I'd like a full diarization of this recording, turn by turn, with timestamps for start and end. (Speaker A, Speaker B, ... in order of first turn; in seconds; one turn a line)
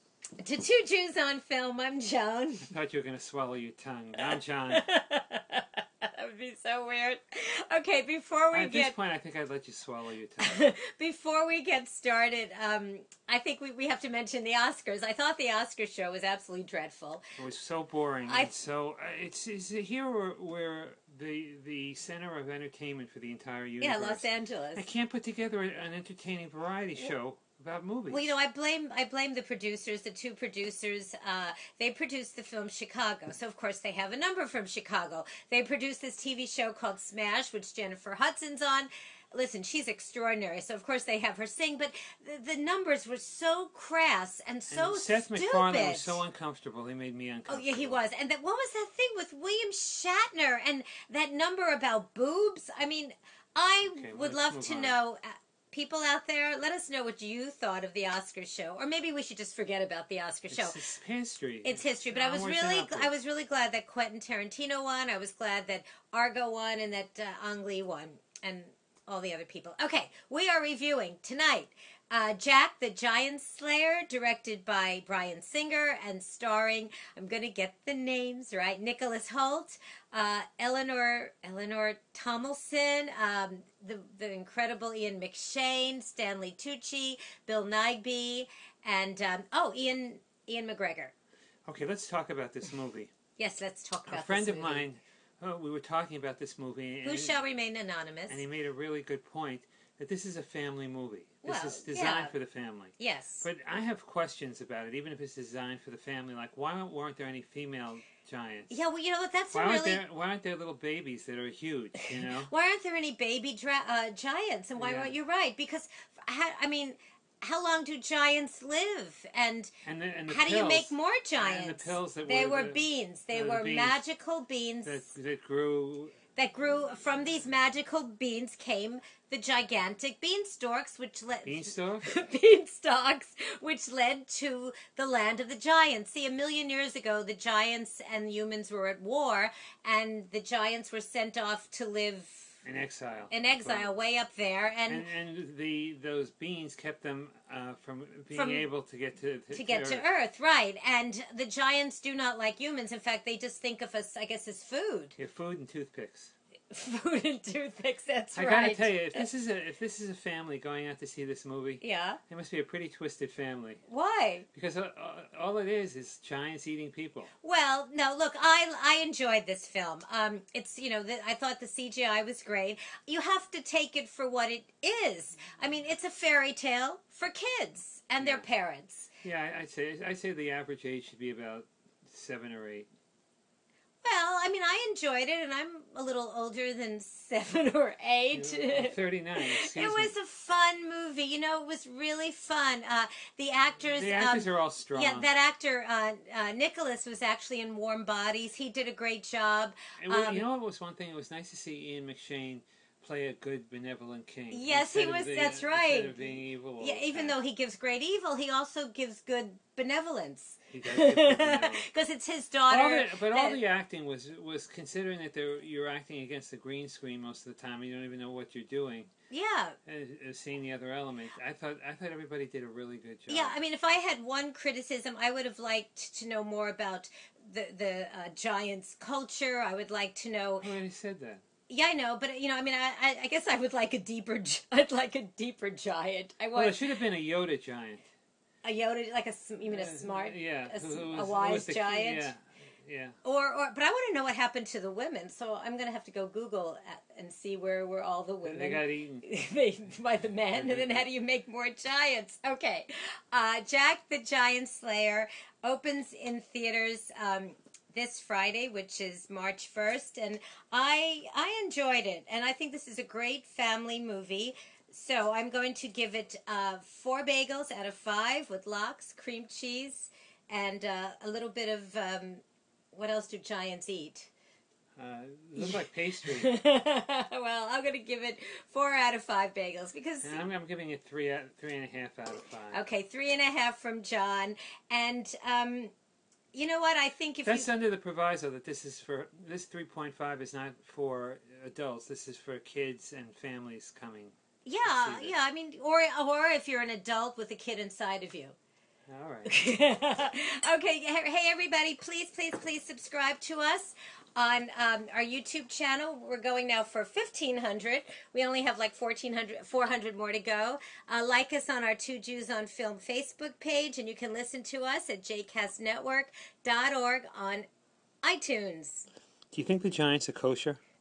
Speaker A: 0.4-2.7
Speaker B: 2.6-4.8
Speaker A: 4.2-8.9
Speaker B: 8.5-10.7
Speaker A: 10.4-17.3
Speaker B: 17.4-28.3
Speaker A: 18.2-18.5
Speaker A: 23.8-24.9
Speaker A: 28.1-46.2
Speaker B: 44.7-48.0
Speaker A: 47.5-60.9
Speaker B: 53.8-55.0
Speaker B: 60.5-63.1
Speaker A: 61.6-91.1
Speaker B: 91.7-93.1
Speaker A: 93.4-94.9
Speaker B: 94.1-97.4
Speaker A: 97.0-98.5
Speaker B: 98.3-108.8
Speaker A: 101.4-102.3
Speaker A: 103.0-103.5
Speaker A: 108.7-110.0
Speaker B: 109.5-112.5
Speaker A: 112.5-119.7
Speaker B: 114.8-115.1
Speaker B: 119.8-124.0
Speaker A: 120.3-125.1
Speaker B: 124.8-126.2
Speaker A: 126.3-142.6
Speaker B: 131.4-132.1
Speaker B: 142.6-143.9
Speaker A: 143.3-145.1
Speaker B: 144.9-150.0
Speaker A: 148.3-148.7
Speaker A: 149.5-155.1
Speaker B: 155.2-156.3
Speaker A: 156.7-159.3
Speaker B: 158.3-163.8
Speaker A: 161.8-162.2
Speaker A: 163.9-164.5
Speaker B: 164.5-167.3
Speaker A: 167.4-179.1
Speaker B: 178.2-178.4
Speaker B: 179.2-182.9
Speaker A: 184.0-200.4
Speaker B: 188.3-190.1
Speaker B: 193.8-195.3
Speaker B: 200.0-207.4
Speaker A: 204.5-213.6
Speaker B: 210.7-211.9
Speaker B: 212.7-219.1
Speaker A: 219.3-219.8
Speaker B: 219.8-223.6
Speaker A: 223.3-230.7
Speaker B: 230.6-231.4
Speaker A: 231.7-236.9
Speaker B: 236.5-238.0
Speaker A: 238.6-242.3
Speaker B: 239.7-243.2
Speaker A: 243.2-274.3
Speaker B: 248.4-249.2
Speaker B: 250.5-251.0
Speaker B: 274.9-276.6
Speaker A: 275.6-280.4
Speaker B: 280.2-282.8
Speaker A: 282.7-285.9
Speaker A: 286.5-287.7
Speaker B: 287.4-295.3
Speaker A: 294.6-298.6
Speaker B: 299.1-299.6
Speaker A: 299.5-317.6
Speaker A: 318.2-319.1
Speaker B: 319.5-320.8